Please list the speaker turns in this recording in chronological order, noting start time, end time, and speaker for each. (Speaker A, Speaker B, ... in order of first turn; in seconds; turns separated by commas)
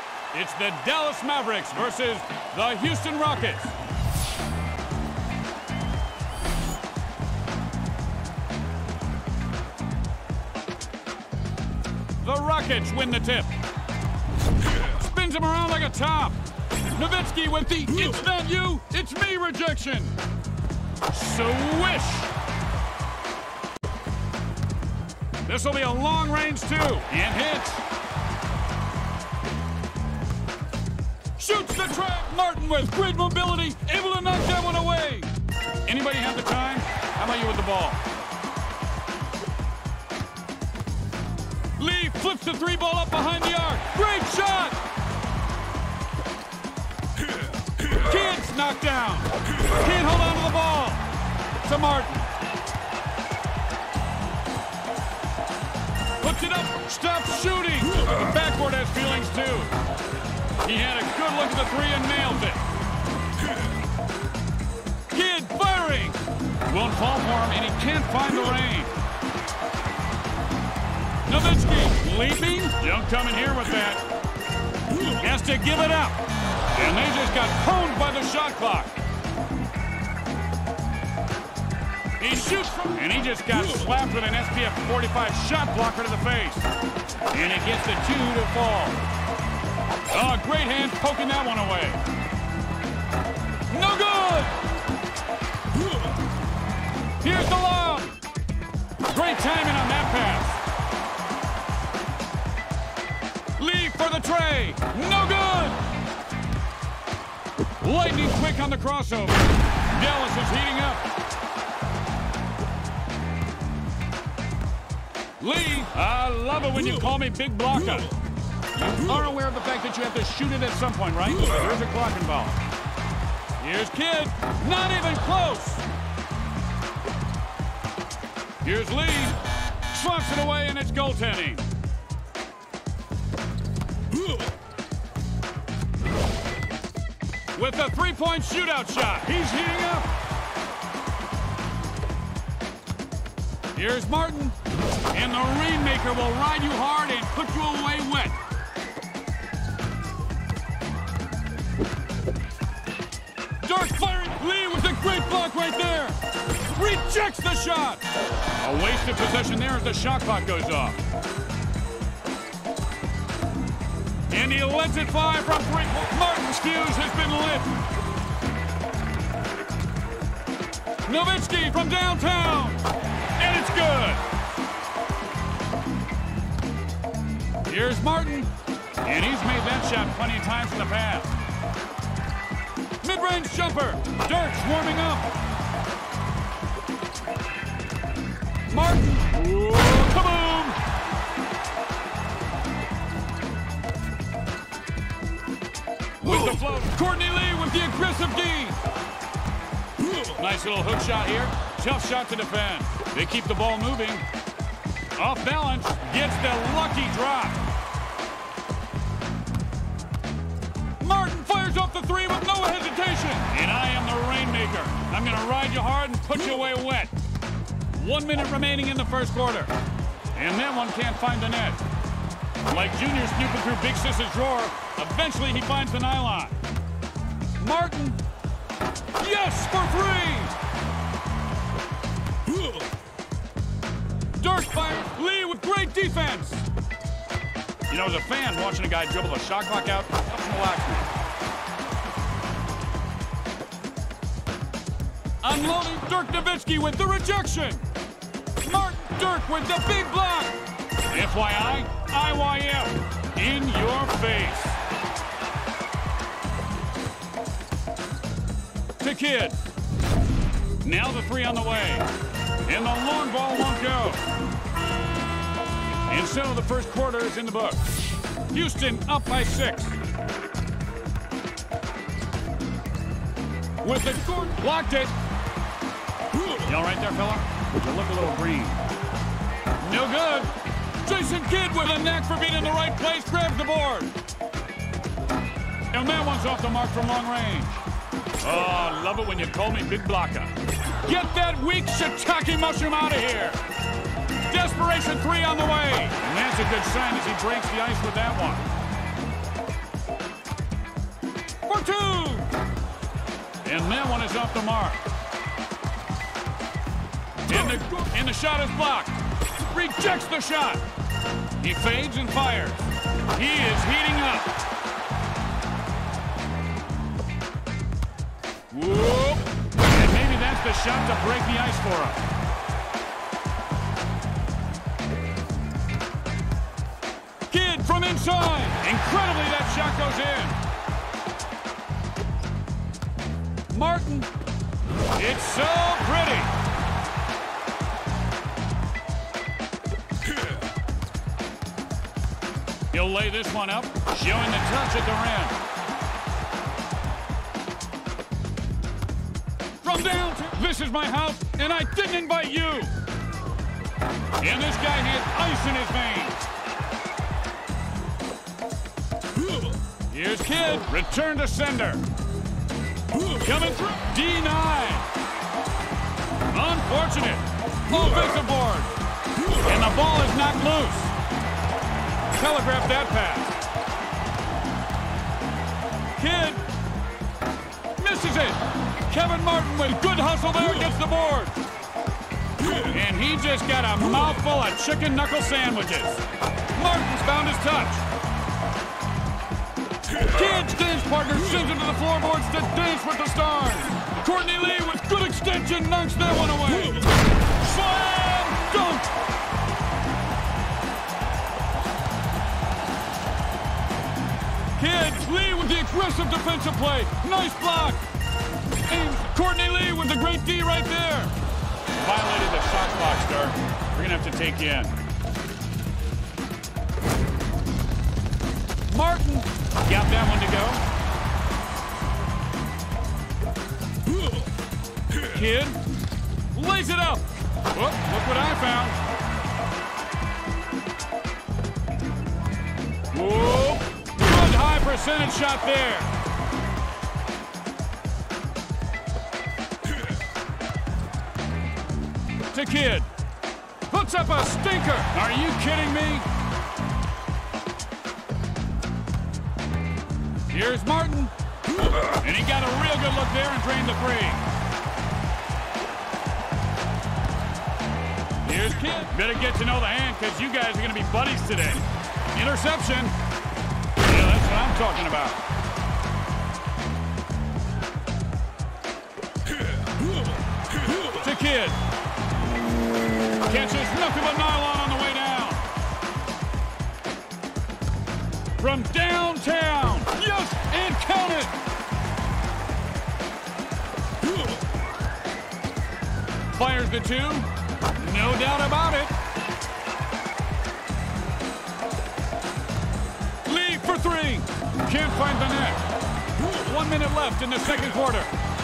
Speaker A: 0.3-3.7, Speaker A: 12.2-13.5, Speaker A: 14.8-16.4, Speaker A: 16.9-20.1, Speaker A: 21.1-22.3, Speaker A: 25.4-27.9, Speaker A: 31.4-35.3, Speaker A: 35.8-38.0, Speaker A: 41.8-44.8, Speaker A: 47.8-51.0, Speaker A: 51.6-52.3, Speaker A: 56.2-59.7, Speaker A: 60.6-62.6, Speaker A: 65.1-68.9, Speaker A: 71.2-74.0, Speaker A: 75.0-76.2, Speaker A: 76.7-78.9, Speaker A: 82.2-86.7, Speaker A: 87.3-89.0, Speaker A: 90.1-92.0, Speaker A: 93.7-94.6, Speaker A: 97.2-98.1, Speaker A: 99.0-100.6, Speaker A: 103.6-105.8, Speaker A: 107.8-111.0, Speaker A: 115.4-118.1, Speaker A: 118.8-122.6, Speaker A: 123.6-125.8, Speaker A: 128.6-129.4, Speaker A: 129.9-131.6, Speaker A: 137.5-140.1, Speaker A: 143.7-144.6, Speaker A: 145.1-148.4, Speaker A: 153.6-158.0, Speaker A: 158.5-161.0, Speaker A: 164.3-167.8, Speaker A: 171.0-172.8, Speaker A: 173.4-174.2, Speaker A: 177.6-178.5, Speaker A: 179.0-181.3, Speaker A: 183.0-185.3, Speaker A: 188.7-190.8, Speaker A: 196.2-198.8, Speaker A: 200.1-204.2, Speaker A: 205.2-207.6, Speaker A: 211.0-217.1, Speaker A: 217.9-219.7, Speaker A: 220.3-221.8, Speaker A: 222.7-226.6, Speaker A: 227.6-228.2, Speaker A: 229.2-230.6, Speaker A: 234.4-236.7, Speaker A: 237.9-241.1, Speaker A: 245.4-247.8, Speaker A: 248.6-254.8, Speaker A: 259.0-259.6, Speaker A: 260.8-262.1, Speaker A: 262.6-264.2, Speaker A: 266.1-268.0, Speaker A: 268.5-270.0, Speaker A: 273.8-275.1, Speaker A: 276.5-278.8, Speaker A: 279.8-284.1, Speaker A: 285.9-287.8, Speaker A: 288.4-293.6, Speaker A: 294.4-298.7, Speaker A: 301.6-302.5, Speaker A: 303.6-305.0, Speaker A: 307.4-310.8, Speaker A: 311.6-314.5, Speaker A: 318.7-322.2, Speaker A: 327.5-330.6, Speaker A: 333.7-334.3, Speaker A: 335.1-336.5, Speaker A: 342.9-345.6, Speaker A: 349.8-352.9, Speaker A: 354.4-356.4, Speaker A: 360.1-362.0, Speaker A: 363.2-365.1, Speaker A: 366.5-368.9, Speaker A: 369.5-371.1, Speaker A: 372.3-373.6, Speaker A: 376.1-376.6, Speaker A: 378.0-381.6, Speaker A: 382.6-388.0, Speaker A: 390.2-399.1, Speaker A: 404.8-408.0, Speaker A: 408.9-411.3, Speaker A: 411.9-414.9, Speaker A: 418.9-420.8, Speaker A: 425.1-425.8, Speaker A: 426.5-429.0, Speaker A: 433.1-436.1, Speaker A: 442.5-443.1, Speaker A: 443.9-446.3, Speaker A: 450.5-451.3, Speaker A: 452.0-454.4, Speaker A: 458.4-463.1, Speaker A: 464.0-465.4, Speaker A: 470.8-471.8, Speaker A: 473.4-475.6, Speaker A: 478.6-481.5, Speaker A: 486.5-489.1, Speaker A: 493.4-495.8, Speaker A: 496.4-498.3